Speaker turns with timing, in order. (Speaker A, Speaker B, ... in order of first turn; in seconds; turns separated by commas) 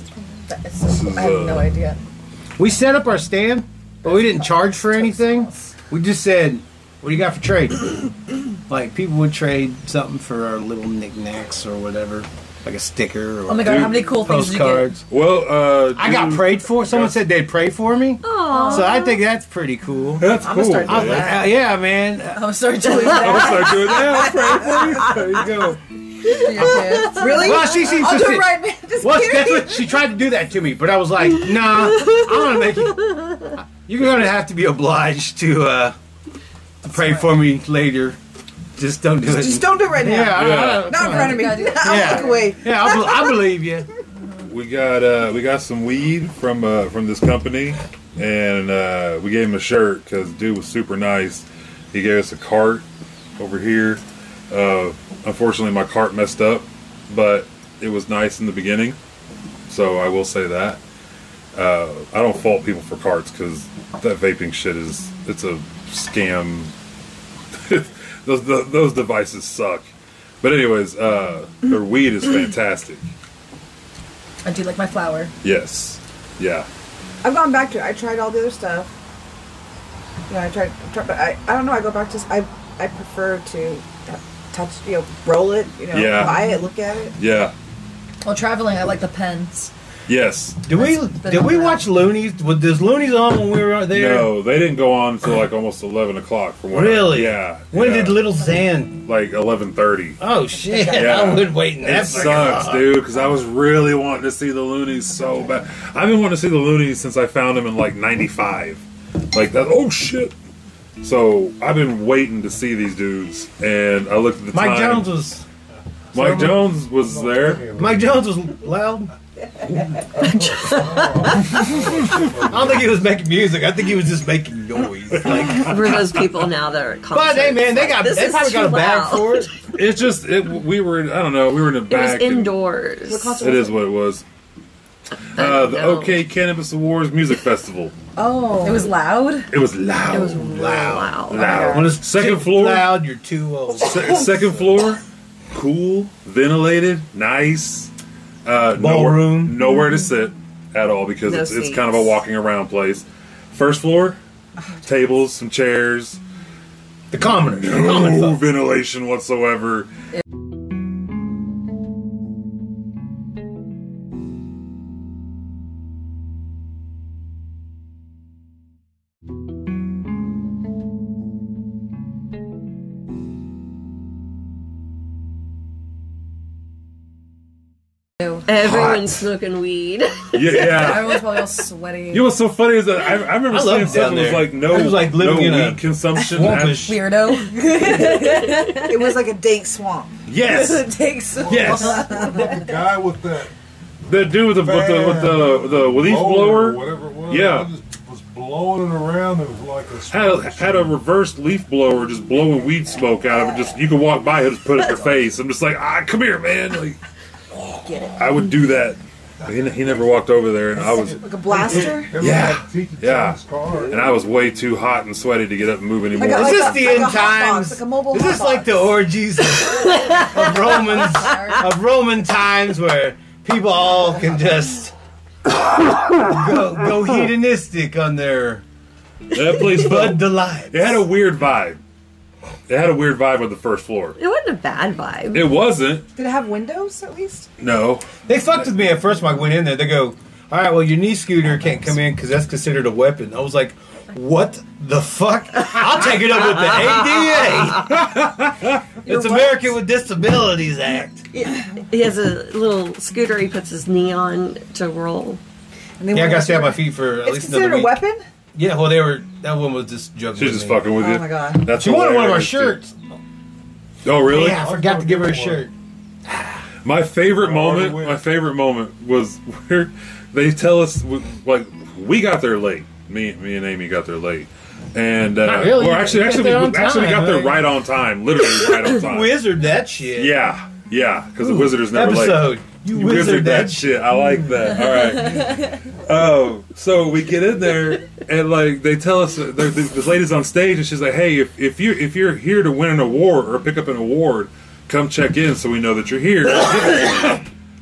Speaker A: 0.2-2.0, Speaker B: 0.8-1.7, Speaker C: 2.6-8.1, Speaker A: 4.1-5.6, Speaker C: 8.7-15.1, Speaker A: 13.5-14.9, Speaker B: 13.6-14.1, Speaker B: 15.1-17.2, Speaker C: 15.9-23.4, Speaker D: 18.2-19.2, Speaker A: 18.5-19.0, Speaker B: 20.2-21.4, Speaker E: 20.3-21.5, Speaker A: 22.3-24.1, Speaker B: 22.9-25.8, Speaker E: 23.7-25.1, Speaker A: 26.3-27.6, Speaker C: 26.5-36.0, Speaker E: 26.6-30.0, Speaker D: 31.9-32.4, Speaker D: 33.0-33.3, Speaker C: 36.8-38.2, Speaker A: 37.0-37.3, Speaker C: 38.8-43.9, Speaker E: 39.2-43.5, Speaker B: 40.3-41.1, Speaker A: 41.0-42.5, Speaker B: 44.5-52.9, Speaker B: 53.4-59.0, Speaker B: 59.7-60.8, Speaker B: 61.5-66.7, Speaker B: 67.6-69.9, Speaker B: 70.4-73.1, Speaker A: 74.5-75.3, Speaker B: 75.4-76.7, Speaker E: 77.2-78.9, Speaker E: 80.3-87.2, Speaker B: 85.9-86.6, Speaker B: 87.2-87.5, Speaker A: 88.2-89.7, Speaker B: 90.1-90.7, Speaker C: 90.7-94.4, Speaker A: 90.7-91.9, Speaker B: 93.9-98.3, Speaker C: 96.7-99.0, Speaker B: 99.0-100.2, Speaker C: 100.2-103.0, Speaker E: 100.6-101.3, Speaker B: 100.9-110.3, Speaker B: 111.0-115.1, Speaker C: 114.5-115.5, Speaker F: 116.1-118.3, Speaker B: 116.1-117.7, Speaker C: 116.2-116.6, Speaker C: 117.7-119.1, Speaker F: 120.2-123.2, Speaker D: 120.3-121.7, Speaker C: 121.3-126.0, Speaker B: 125.3-126.0, Speaker D: 125.3-129.5, Speaker C: 127.1-129.5, Speaker B: 129.7-132.6, Speaker D: 131.9-133.4, Speaker E: 133.1-133.9, Speaker B: 133.3-134.2, Speaker B: 135.3-137.9, Speaker D: 135.4-136.2, Speaker E: 138.2-138.9, Speaker A: 138.6-139.5, Speaker B: 139.5-140.5, Speaker D: 140.1-141.7, Speaker C: 140.3-144.6, Speaker B: 141.3-143.0, Speaker A: 141.3-141.9, Speaker B: 143.8-145.0, Speaker B: 145.5-147.9, Speaker B: 148.5-154.2, Speaker C: 148.8-149.6, Speaker D: 151.3-152.2, Speaker B: 154.8-156.2, Speaker C: 157.1-158.4, Speaker B: 157.5-159.9, Speaker D: 178.5-181.0, Speaker B: 178.6-179.1, Speaker B: 180.3-181.3, Speaker A: 180.7-182.3, Speaker B: 182.1-187.0, Speaker C: 183.5-187.0, Speaker A: 186.8-188.9, Speaker E: 187.6-190.2, Speaker B: 190.3-190.9, Speaker A: 190.4-192.6, Speaker F: 191.5-193.5, Speaker B: 191.5-191.9, Speaker E: 191.5-192.6, Speaker B: 194.1-197.7, Speaker F: 194.1-201.0, Speaker B: 200.1-207.0, Speaker E: 207.6-208.2, Speaker B: 208.2-211.2, Speaker F: 209.4-214.3, Speaker E: 211.2-212.2, Speaker B: 212.2-217.1, Speaker E: 216.2-219.0, Speaker C: 216.2-224.9, Speaker A: 221.1-221.7, Speaker C: 226.0-228.6, Speaker B: 229.3-231.8, Speaker C: 229.7-231.0, Speaker B: 232.7-234.2, Speaker D: 234.2-235.5, Speaker B: 235.3-236.1, Speaker E: 236.2-237.5, Speaker B: 237.6-238.1, Speaker C: 238.3-248.0, Speaker B: 247.8-248.8, Speaker C: 249.0-251.3, Speaker E: 251.3-251.8, Speaker D: 251.9-255.4, Speaker E: 256.0-258.2, Speaker C: 256.1-258.0, Speaker C: 258.6-260.9, Speaker B: 260.4-262.8, Speaker E: 260.9-261.7, Speaker C: 261.7-262.9, Speaker B: 264.0-264.6, Speaker C: 264.2-265.7, Speaker F: 264.3-265.7, Speaker C: 266.3-266.6, Speaker B: 266.8-279.4, Speaker F: 267.2-268.4, Speaker C: 275.4-277.7, Speaker C: 278.5-280.4, Speaker B: 280.1-297.5, Speaker C: 281.4-284.8